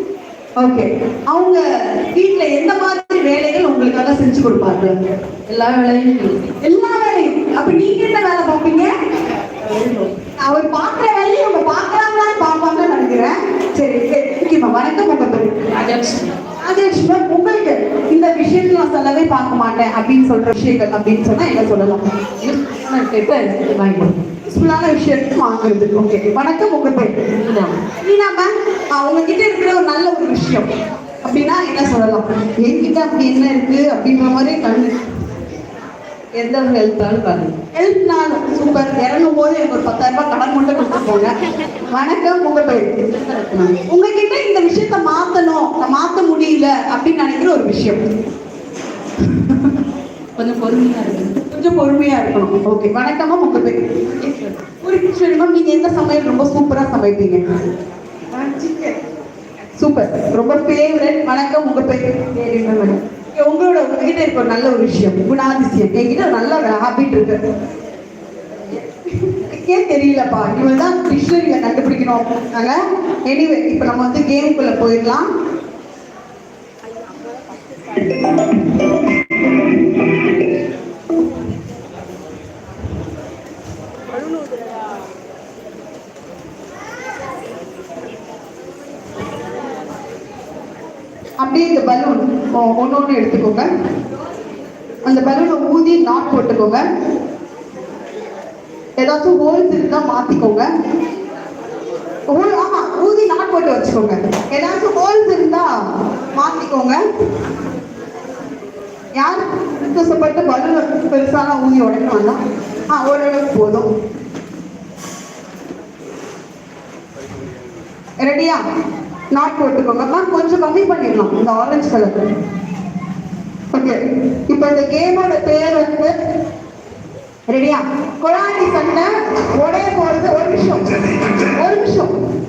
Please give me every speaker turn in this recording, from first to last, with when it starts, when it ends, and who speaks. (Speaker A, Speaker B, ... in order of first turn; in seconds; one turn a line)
Speaker A: 0.6-1.6
Speaker A: 2.1-5.0
Speaker B: 5.5-6.5
Speaker A: 6.6-8.9
Speaker B: 9.6-10.1
Speaker A: 10.4-15.5
Speaker B: 15.7-16.3
Speaker A: 16.6-22.0
Speaker B: 22.4-24.2
Speaker A: 24.5-27.1
Speaker B: 27.4-27.8
Speaker A: 27.9-30.7
Speaker A: 31.2-35.0
Speaker B: 36.4-37.5
Speaker A: 37.7-41.3
Speaker A: 41.9-42.9
Speaker B: 43.2-43.7
Speaker A: 43.6-48.0
Speaker B: 50.4-51.4
Speaker A: 51.4-53.8
Speaker B: 54.1-54.5
Speaker A: 54.8-57.4
Speaker B: 58.4-58.9
Speaker A: 59.8-67.4
Speaker A: 69.1-75.3
Speaker A: 91.4-93.7
Speaker A: 95.1-96.8
Speaker A: 99.0-100.7
Speaker A: 102.3-105.7
Speaker A: 106.4-107.0
Speaker A: 109.2-112.4
Speaker A: 112.9-113.9
Speaker A: 118.2-118.6
Speaker A: 119.3-122.2
Speaker A: 123.7-126.1
Speaker A: 127.5-130.9
Speaker A: 131.5-132.1